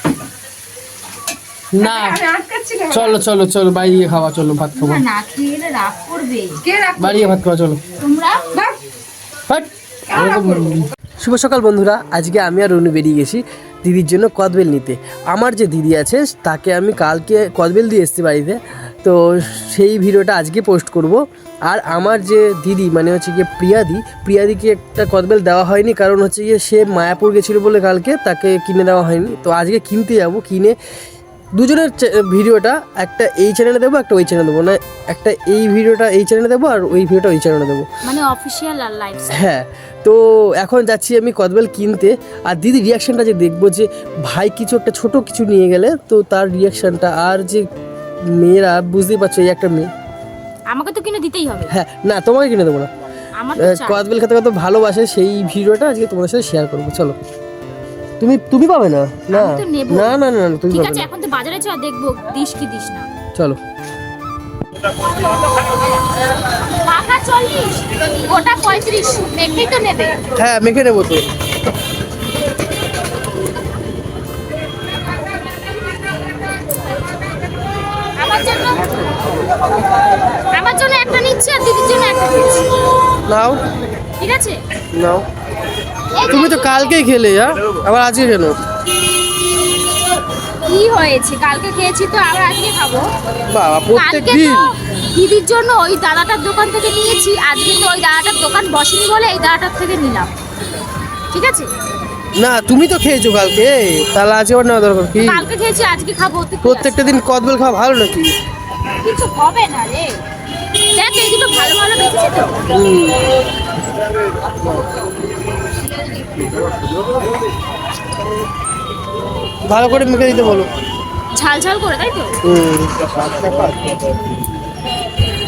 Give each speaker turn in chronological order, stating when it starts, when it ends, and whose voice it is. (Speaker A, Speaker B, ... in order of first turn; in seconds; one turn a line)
Speaker A: 1.7-2.2
Speaker B: 1.8-3.2
Speaker A: 2.9-5.0
Speaker C: 4.7-6.6
Speaker B: 6.6-7.4
Speaker A: 7.0-7.8
Speaker C: 8.0-8.4
Speaker A: 9.5-30.8
Speaker B: 10.1-10.9
Speaker A: 31.5-37.9
Speaker C: 38.0-39.5
Speaker A: 39.3-47.7
Speaker A: 48.2-49.9
Speaker C: 50.7-51.7
Speaker A: 51.7-52.9
Speaker C: 53.4-54.0
Speaker A: 53.5-57.1
Speaker A: 58.2-61.1
Speaker C: 59.3-60.2
Speaker C: 60.7-63.1
Speaker C: 66.7-70.2
Speaker A: 70.3-71.3
Speaker C: 78.2-79.0
Speaker C: 80.5-82.7
Speaker A: 83.3-83.6
Speaker C: 84.2-84.6
Speaker A: 84.9-85.2
Speaker C: 86.1-87.0
Speaker A: 86.2-88.5
Speaker C: 90.6-93.1
Speaker A: 93.5-94.7
Speaker C: 93.9-100.3
Speaker C: 101.3-101.7
Speaker A: 102.4-105.5
Speaker C: 105.2-107.2
Speaker A: 106.6-108.4
Speaker C: 109.0-110.2
Speaker C: 110.9-112.6
Speaker A: 112.7-113.2
Speaker A: 119.7-120.7
Speaker C: 121.3-122.4
Speaker A: 122.4-123.9